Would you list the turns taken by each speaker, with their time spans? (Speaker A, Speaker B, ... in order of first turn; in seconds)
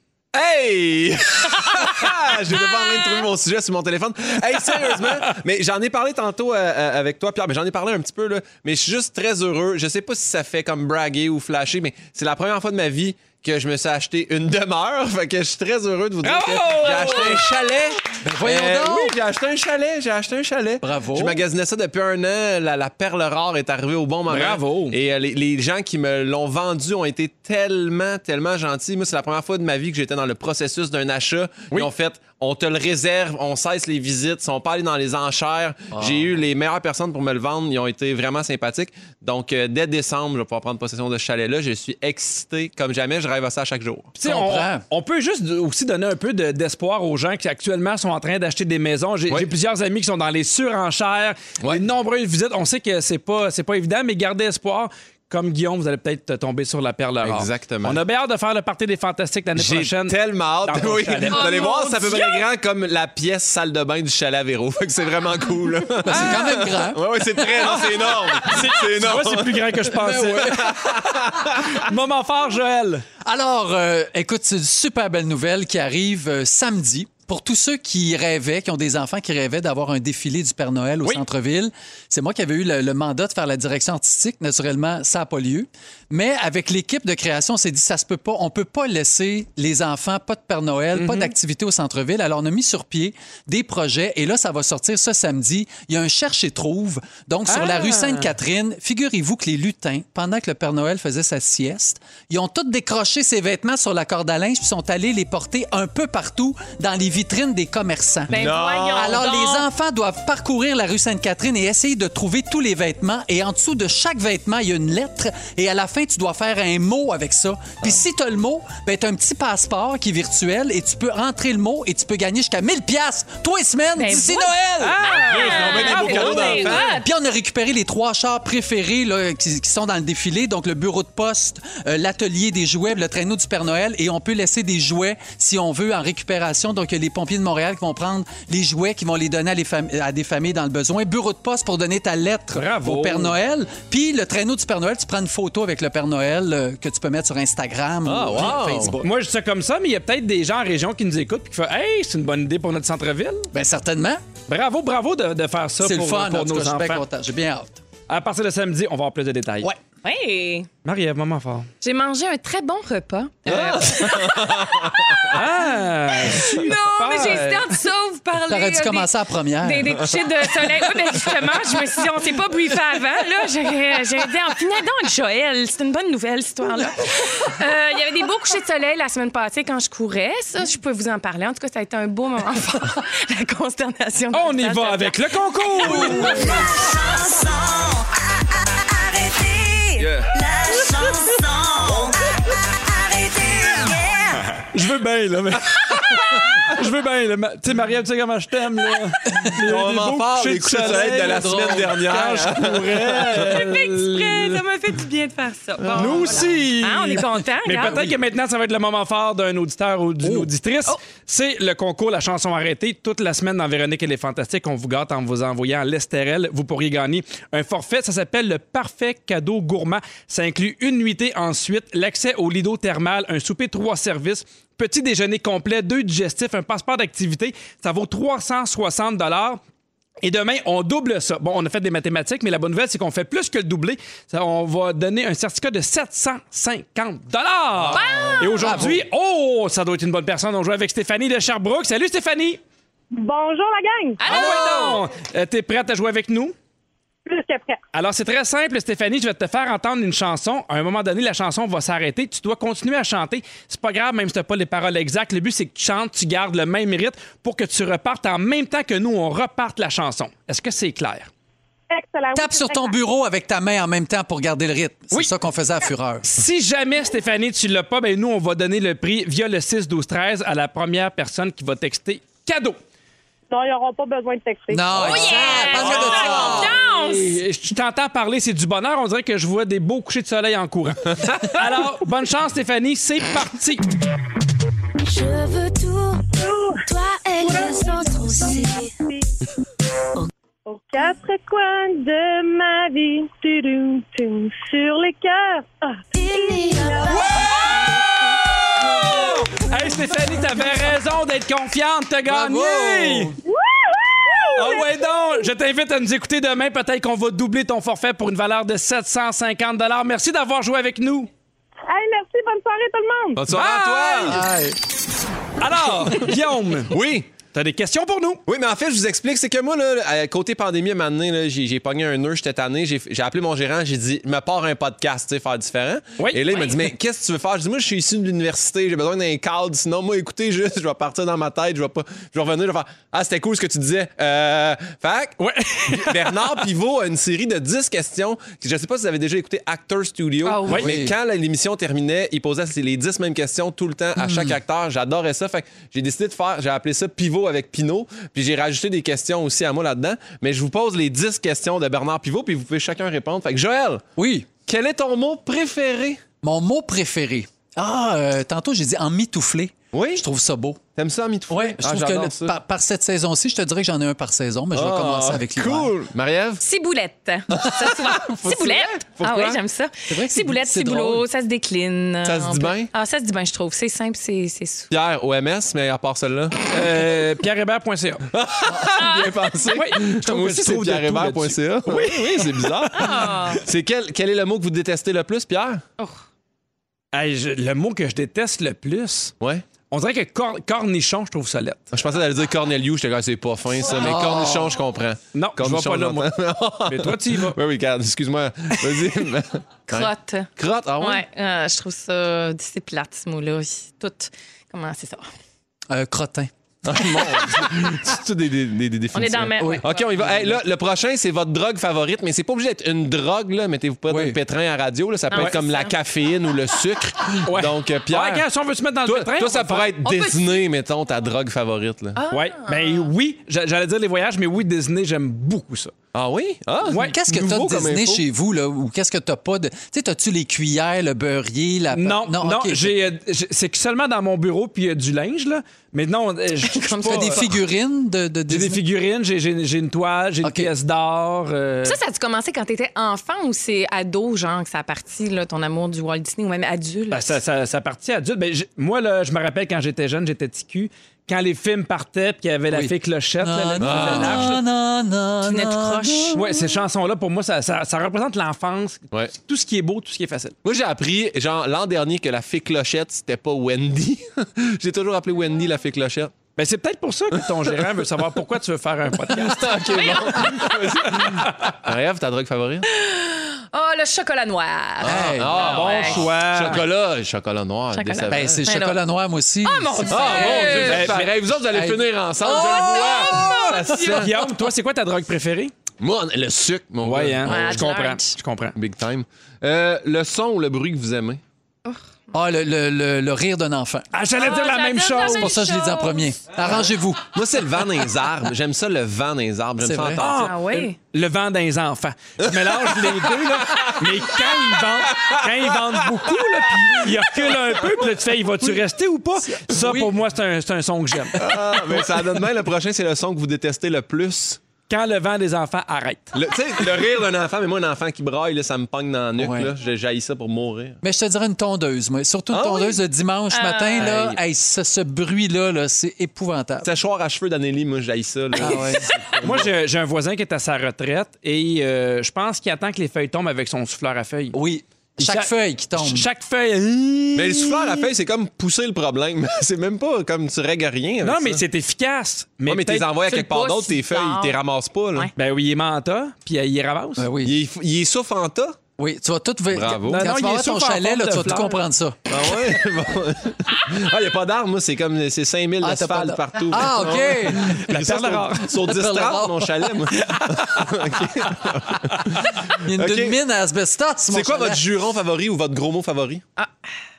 Speaker A: 0.3-44.1, 57.2-58.0, 59.5-71.6, 108.3-109.1, 125.1-127.0, 148.0-149.0, 163.5-165.2, 189.9-190.3, 199.6-203.5, 275.7-276.5, 313.4-314.4, 316.9-317.3, 318.5-354.0, 354.6-356.2, 359.9-360.2, 360.9-362.5, 364.7-366.6, 367.6-369.6, 372.2-372.9, 374.9-376.7, 378.3-385.8, 391.9-401.2, 406.8-418.4, 419.0-422.2, 426.1-428.2, 453.8-454.5, 460.6-466.3, 469.3-472.9, 475.0-478.6, 480.1-484.3, 486.0-487.8, 488.8-491.4, 497.3-500.5, 503.6-504.0, 511.4-514.6, 516.3-521.0, 522.5-523.0, 524.0-524.4, 526.8-529.7, 537.3-541.6, 542.7-545.3, 547.4-548.8, 549.7-550.2, 552.3-563.4, 564.3-566.4
Speaker B: 2.6-3.2, 61.3-62.4, 108.3-109.7, 124.0-127.1, 160.0-160.7, 161.8-165.5, 166.1-169.1, 169.6-186.6, 203.4-208.0, 237.9-238.8, 244.2-245.0, 274.9-277.4, 340.4-340.8, 366.6-374.9, 378.9-379.3, 382.9-383.6, 399.9-400.5, 401.0-405.2, 409.1-410.1, 415.3-415.9, 420.0-420.6, 422.1-423.1, 436.6-437.4, 441.8-447.4, 455.4-456.4, 469.9-470.7, 472.9-476.2, 477.9-479.0, 479.6-481.1, 482.4-484.3, 487.4-488.3, 494.4-496.3, 500.2-500.9, 523.5-524.1, 543.3-544.5
Speaker C: 16.2-17.4, 24.3-24.9, 44.2-61.6, 67.8-70.8, 71.7-73.0, 90.9-91.3, 97.5-98.3, 124.8-126.8, 142.5-143.3, 149.0-153.5, 154.5-157.0, 158.1-159.7, 160.8-161.7, 165.3-167.7, 184.3-186.6, 194.5-204.6, 205.9-229.6, 230.2-242.6, 244.2-246.5, 247.9-261.3, 266.2-272.8, 275.8-283.9, 297.1-303.3, 304.5-311.3, 313.5-314.5, 315.6-316.9, 317.5-318.4, 326.2-326.6, 335.4-336.3, 376.7-378.2, 379.7-383.1, 387.1-389.3, 389.9-391.9, 395.3-396.3, 396.9-397.6, 417.4-419.9, 422.3-425.9, 426.9-427.1, 431.9-437.4, 438.5-442.0, 447.1-454.6, 456.3-460.6, 466.6-470.0, 471.1-471.8, 475.6-476.8, 480.3-481.3, 484.1-485.7, 487.0-488.7, 494.1-495.5, 500.2-511.4, 514.9-516.3, 529.4-534.5, 535.2-538.0, 541.2-543.1, 545.4-547.3, 550.1-551.8, 557.7-558.7, 562.1-562.3
Speaker D: 18.2-19.2, 20.8-21.4, 35.9-36.2, 44.2-44.8, 66.0-67.0, 69.9-71.1, 73.2-149.0, 153.5-154.2, 155.8-157.8, 168.4-170.2, 200.8-202.5, 207.8-208.1, 210.2-210.5, 237.8-239.0, 244.3-244.9, 262.3-266.2, 274.7-276.8, 302.2-303.3, 314.3-314.8, 340.7-341.1, 344.1-344.6, 354.2-354.5, 356.4-360.8, 361.5-365.9, 370.1-371.2, 393.9-394.7, 405.9-407.3, 409.6-410.6, 414.1-414.4, 426.9-433.0, 437.0-438.8, 440.4-440.7, 452.7-456.5, 475.0-475.6, 478.3-480.9, 481.7-483.8, 492.3-494.1, 495.2-497.2, 499.8-500.2, 509.4-510.1, 519.4-519.7, 521.0-526.9, 528.5-529.2, 534.5-536.3, 547.2-547.6, 549.0-552.6, 555.8-557.9, 558.7-560.1, 562.7-564.8
Speaker E: 186.4-188.0, 189.0-192.1, 192.9-194.1, 285.0-286.2, 286.9-288.9, 296.1-297.5
Speaker F: 243.1-244.2, 247.2-247.8, 261.9-262.9, 273.5-274.9, 286.3-286.9, 287.4-289.2, 290.7-297.2, 303.4-305.0, 311.9-313.4